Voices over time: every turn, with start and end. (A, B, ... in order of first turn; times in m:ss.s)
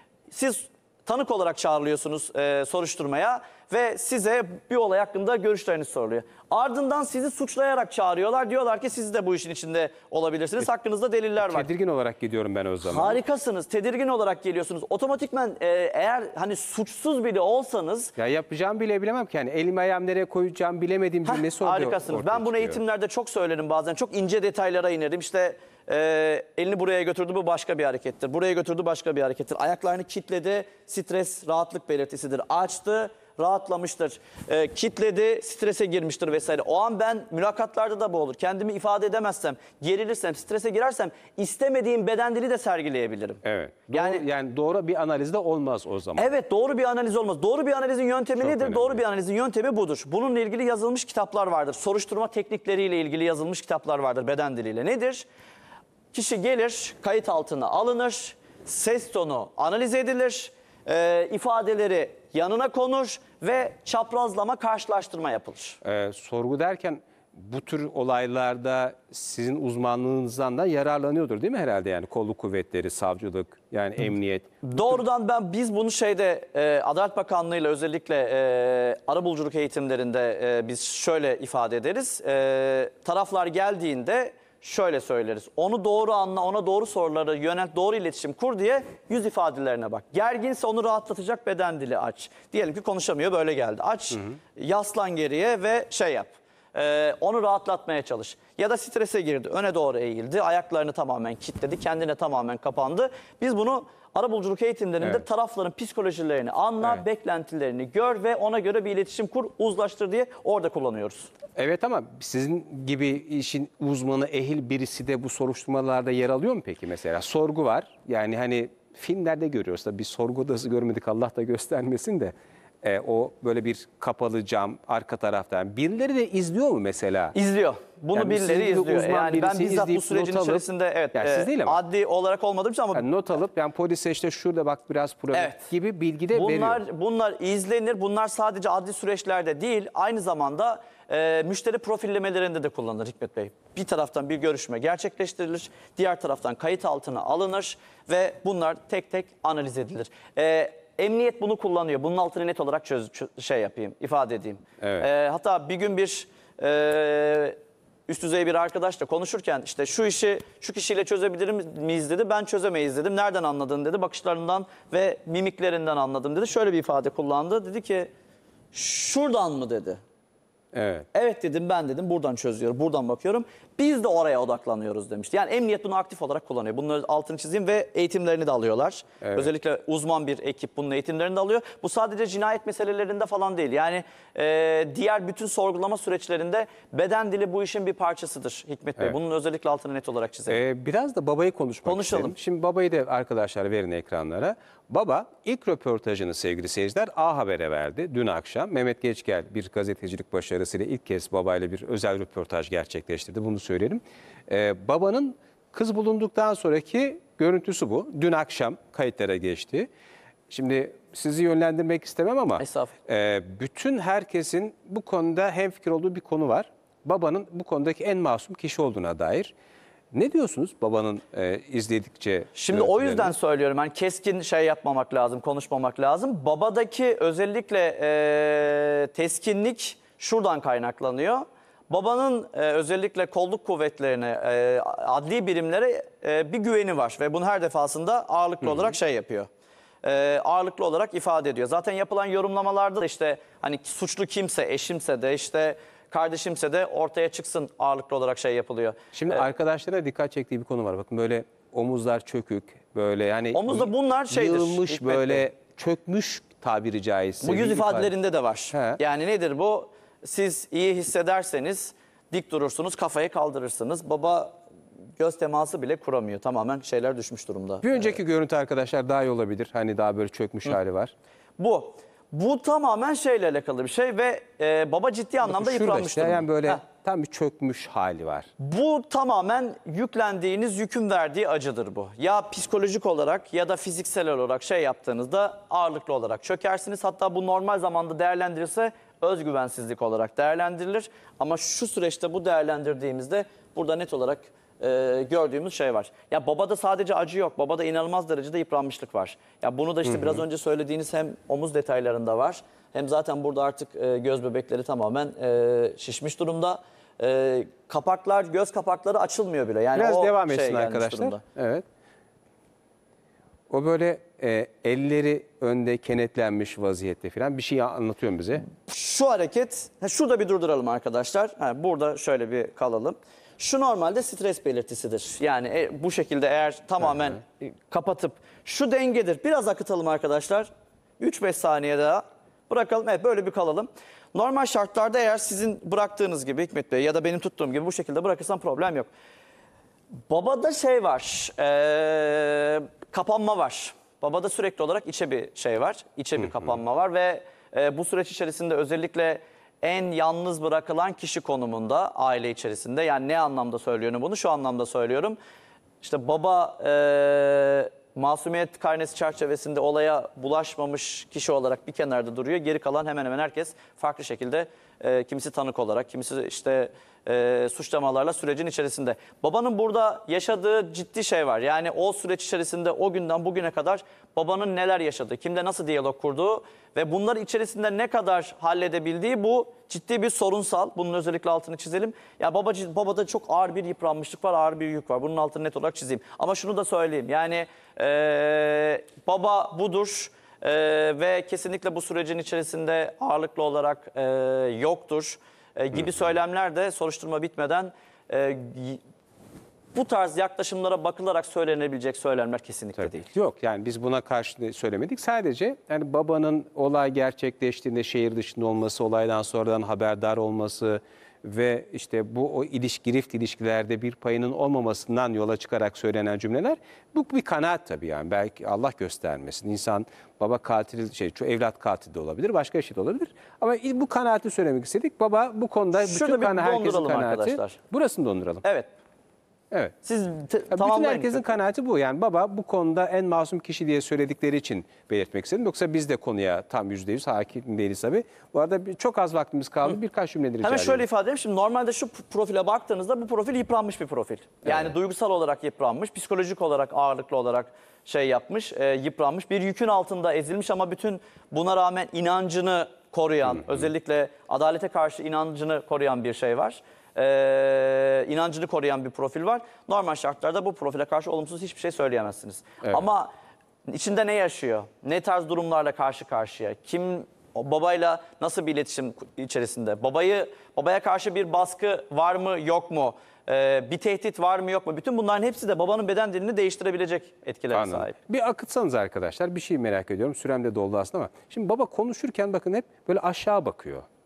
0:00.3-0:11.7 A
0:11.4-0:13.2 B
0:12.8-0:18.1 A
0:18.2-0:22.8 B
0:21.2-0:44.2 A
0:43.4-0:46.3 B
0:46.1-0:55.3 A
0:48.4-0:49.0 B
0:56.1-1:05.8 A
1:05.8-1:15.0 B
1:14.6-1:51.3 A
1:51.6-2:07.3 B
2:07.3-2:13.0 A
2:08.1-2:11.8 B
2:12.9-2:16.8 B
2:15.3-2:15.7 A
2:16.3-2:37.6 A
2:34.8-2:35.1 B
2:38.1-2:48.1 A
2:48.7-2:50.0 A
2:50.7-2:51.1 B
2:51.1-3:10.6 A
2:59.2-2:59.5 B
3:10.5-3:29.9 B
3:11.8-3:12.3 A
3:30.5-3:39.5 B
3:32.6-3:32.9 A
3:40.1-3:43.3 B
3:42.5-3:59.5 A
4:00.0-4:09.4 A
4:09.1-4:18.1 B
4:13.5-4:15.4 A
4:17.4-4:24.6 A
4:18.7-4:19.0 B
4:25.2-4:28.1 A
4:27.8-4:31.1 B
4:31.6-4:36.8 A
4:35.4-4:38.5 B
4:38.6-5:11.4 A
5:00.1-5:00.4 B
5:09.9-5:11.8 B
5:13.7-5:18.6 B
5:18.7-5:30.7 A
5:31.2-5:39.1 A
5:40.3-5:55.4 A
5:56.0-6:39.0 A
6:39.9-6:43.3 A
6:43.0-7:08.6 B
7:06.0-7:07.8 A
7:08.6-7:08.9 A
7:10.0-7:11.5 A
7:10.7-7:21.0 B
7:20.6-7:43.3 A
7:43.9-7:58.1 A
7:57.7-8:04.0 B